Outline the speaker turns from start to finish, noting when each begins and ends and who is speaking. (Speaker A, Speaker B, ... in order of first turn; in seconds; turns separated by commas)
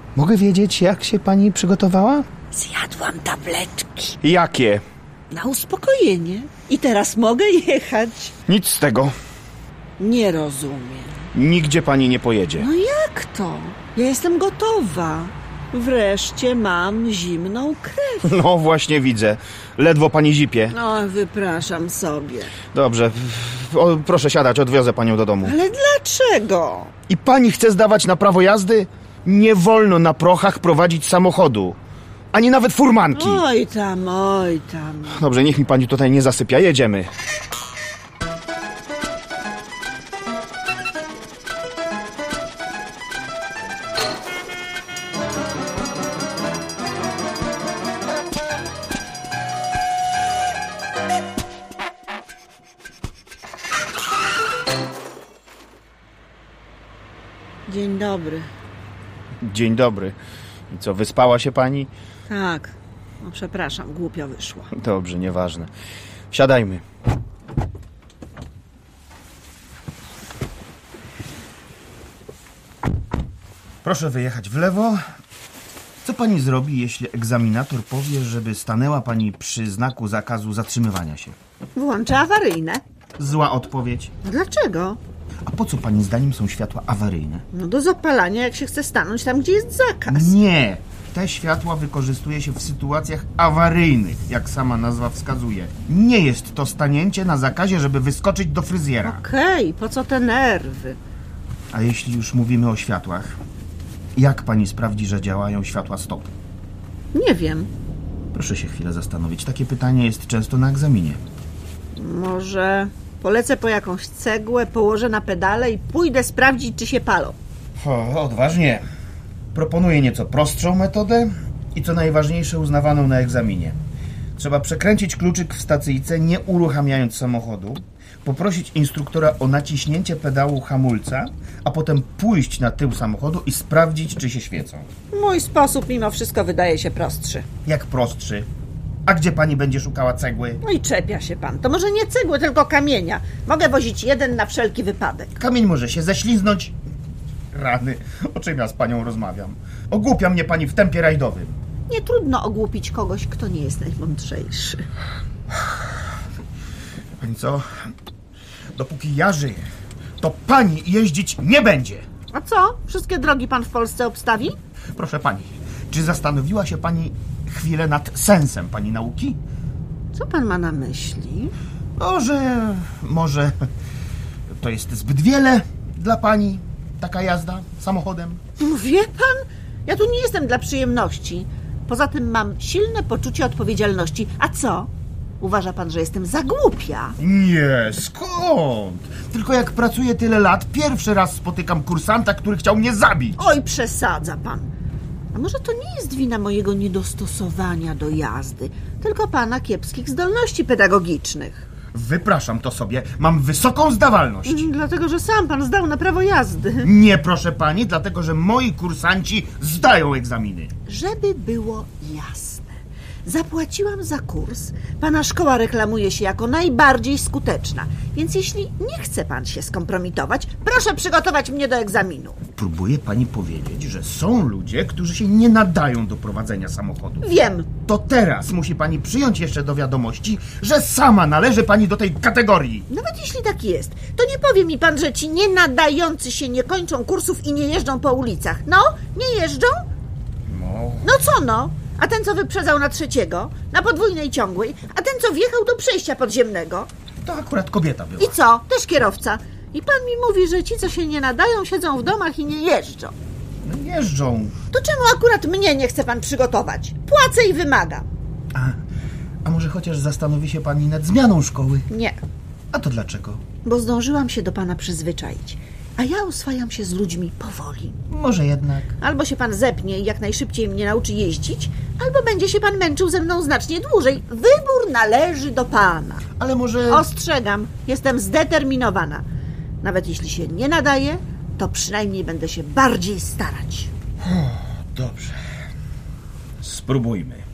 Speaker A: 0.1-2.3, Speaker B: 2.5-4.2, Speaker A: 4.2-4.8, Speaker B: 5.3-8.3, Speaker A: 8.5-9.2, Speaker B: 10.0-11.3, Speaker A: 11.3-12.7, Speaker B: 12.6-18.4, Speaker A: 18.2-20.8, Speaker B: 20.7-22.5, Speaker A: 22.7-25.6, Speaker B: 25.4-26.9, Speaker A: 27.1-31.8, Speaker A: 32.3-33.4, Speaker B: 33.1-35.2, Speaker A: 35.1-37.1, Speaker B: 57.7-58.5, Speaker A: 59.4-60.2, Speaker A: 60.7-61.9, Speaker B: 62.3-64.7, Speaker A: 64.7-65.7, Speaker A: 66.3-66.8, Speaker A: 73.8-75.0, Speaker A: 76.0-81.4, Speaker B: 81.8-82.8, Speaker A: 83.2-84.1, Speaker B: 84.2-85.0, Speaker A: 85.5-87.5, Speaker B: 87.5-90.3, Speaker A: 90.1-99.2, Speaker B: 99.0-101.0, Speaker A: 101.7-103.4, Speaker A: 104.2-106.3, Speaker B: 107.1-107.7, Speaker A: 108.3-111.2, Speaker B: 112.0-117.4, Speaker A: 117.8-118.8, Speaker A: 119.5-123.8, Speaker A: 124.4-134.9, Speaker B: 135.1-137.5, Speaker A: 137.7-138.5, Speaker A: 139.1-140.6, Speaker B: 140.6-145.3, Speaker A: 145.4-146.8, Speaker A: 147.5-151.6, Speaker B: 151.9-154.9, Speaker A: 157.2-157.8, Speaker A: 158.8-159.7, Speaker A: 160.2-162.1, Speaker B: 162.3-164.6, Speaker A: 164.9-169.4, Speaker B: 170.1-171.5, Speaker A: 172.0-173.7, Speaker A: 174.6-178.4, Speaker B: 178.6-187.2, Speaker A: 187.2-193.4, Speaker B: 193.4-194.7, Speaker B: 195.3-201.7, Speaker A: 201.9-204.7, Speaker B: 204.5-206.9, Speaker A: 206.8-210.7, Speaker B: 210.9-222.4, Speaker A: 222.6-227.3, Speaker B: 227.2-227.7, Speaker A: 227.9-232.9, Speaker B: 232.9-239.8, Speaker A: 240.5-241.1, Speaker B: 241.0-246.9, Speaker A: 247.2-248.4, Speaker B: 248.2-253.2, Speaker A: 253.6-254.6, Speaker B: 254.7-258.1, Speaker A: 258.5-258.8, Speaker A: 259.4-261.9, Speaker B: 261.9-262.2, Speaker A: 262.7-263.4, Speaker B: 263.6-268.0, Speaker A: 268.1-268.9, Speaker B: 269.0-276.2, Speaker A: 276.4-277.1, Speaker B: 276.9-279.2, Speaker B: 279.8-283.9, Speaker A: 284.2-285.4, Speaker A: 286.6-287.4